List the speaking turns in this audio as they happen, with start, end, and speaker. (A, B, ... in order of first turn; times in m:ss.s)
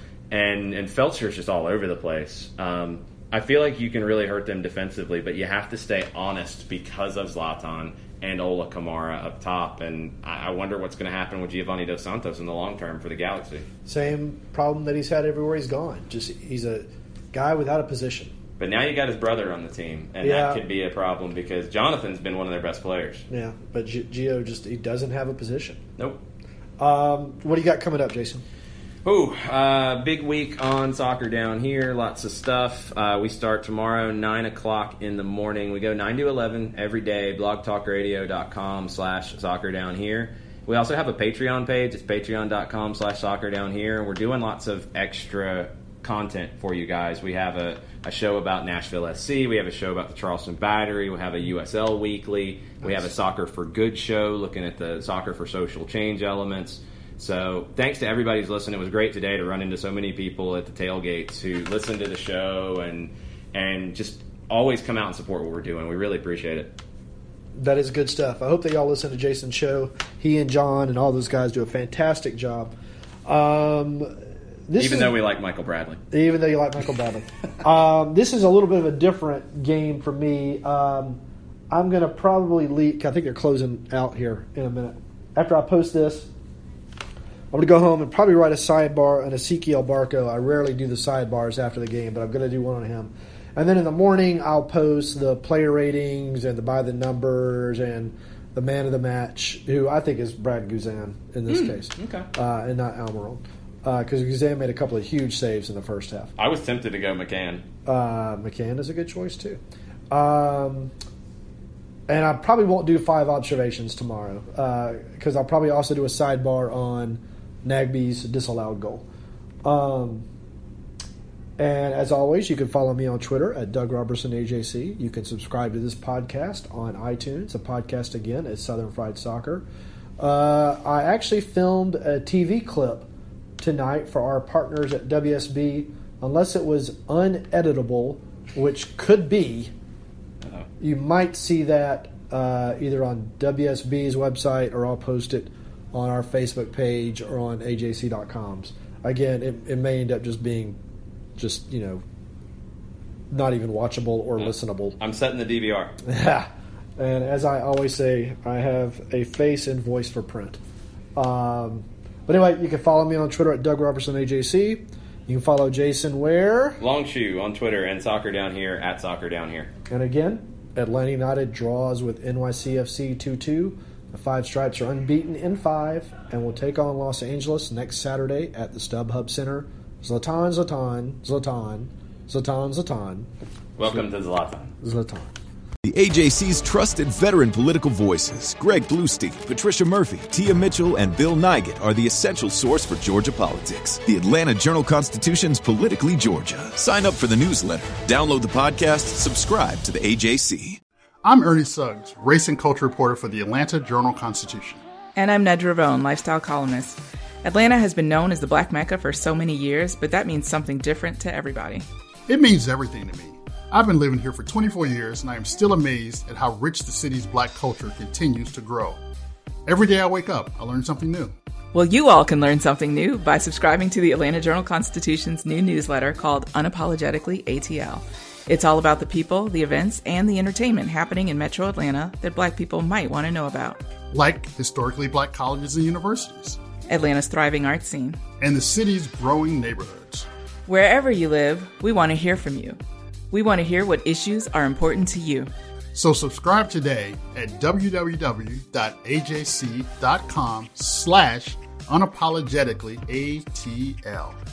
0:00.3-0:13.6 A
0:13.8-0:18.3 B
0:18.6-0:23.2 A
0:20.2-0:20.6 B
0:23.3-0:25.8 B
0:26.8-0:28.4 B
0:29.0-1:06.8 A
1:07.5-1:12.7 B
1:13.2-1:14.1 B
1:14.7-1:15.2 B
1:14.8-1:16.0 A
1:16.1-1:21.2 B
1:21.7-1:26.3 B
1:27.5-1:46.3 B
1:41.5-1:42.3 A
1:46.4-1:47.6 A
1:47.8-1:49.6 B
1:50.1-1:50.9 B
1:52.1-1:59.0 B
1:59.6-2:00.2 B
2:01.6-2:09.6 B
2:10.2-2:13.1 B
2:13.6-2:19.7 B
2:20.8-2:30.8 B
2:31.4-2:32.0 B
2:33.3-2:35.0 B
2:34.4-2:35.9 A
2:36.0-2:40.6 B
2:41.2-2:46.8 B
2:46.8-2:49.7 A
2:49.9-3:03.3 B
3:03.8-3:04.7 A
3:04.8-3:05.3 B
3:05.8-3:20.8 C
3:21.2-3:24.8 D
3:25.2-3:26.9 E
3:27.4-3:31.8 E
3:32.3-3:39.0 D
3:39.7-3:41.3 D
3:41.7-3:53.7 E
3:54.1-3:56.6 D
3:56.9-3:58.1 E
3:58.4-4:00.3 D
4:00.7-4:02.8 E
4:03.3-4:05.5 E
4:05.9-4:14.4 D